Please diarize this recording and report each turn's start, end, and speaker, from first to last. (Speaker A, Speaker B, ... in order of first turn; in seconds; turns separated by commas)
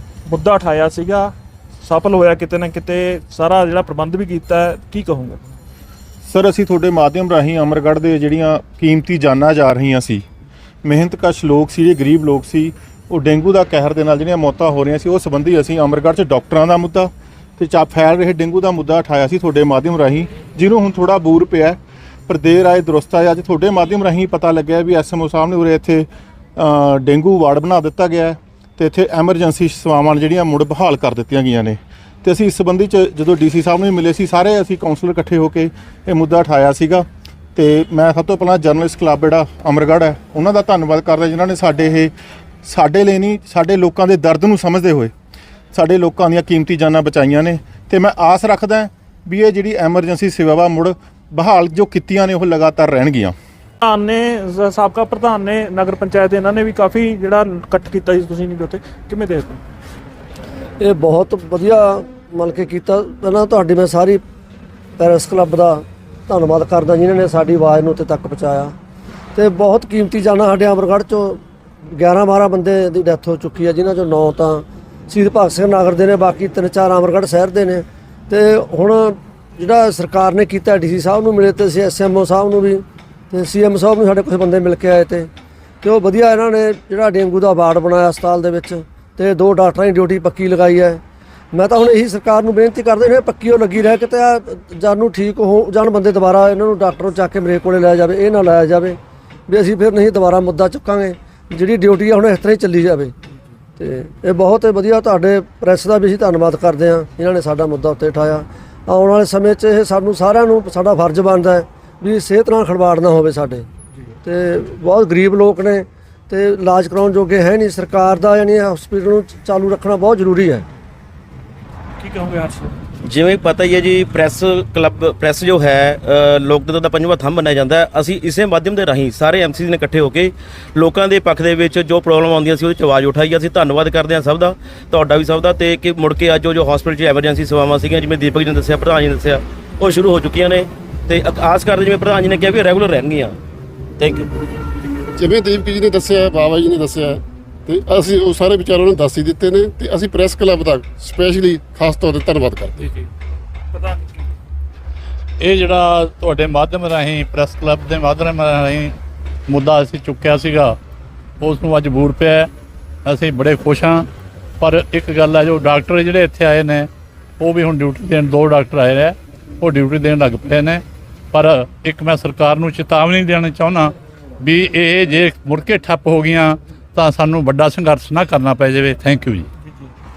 Speaker A: 0.3-1.3, Speaker A: 1.8-5.4, Speaker B: 6.2-10.2, Speaker B: 10.8-42.1, Speaker B: 42.6-45.1, Speaker B: 45.7-53.3, Speaker A: 53.8-59.6, Speaker C: 60.8-64.2, Speaker C: 65.0-68.7, Speaker C: 69.3-85.3, Speaker C: 85.8-91.0, Speaker C: 91.5-103.1, Speaker C: 103.8-113.7, Speaker C: 114.2-120.6, Speaker A: 122.0-122.7, Speaker D: 123.1-143.3, Speaker D: 144.0-144.3, Speaker E: 145.2-153.0, Speaker A: 153.7-154.3, Speaker F: 155.4-158.9, Speaker F: 159.5-160.8, Speaker F: 161.4-162.5, Speaker F: 163.0-164.1, Speaker F: 164.6-179.5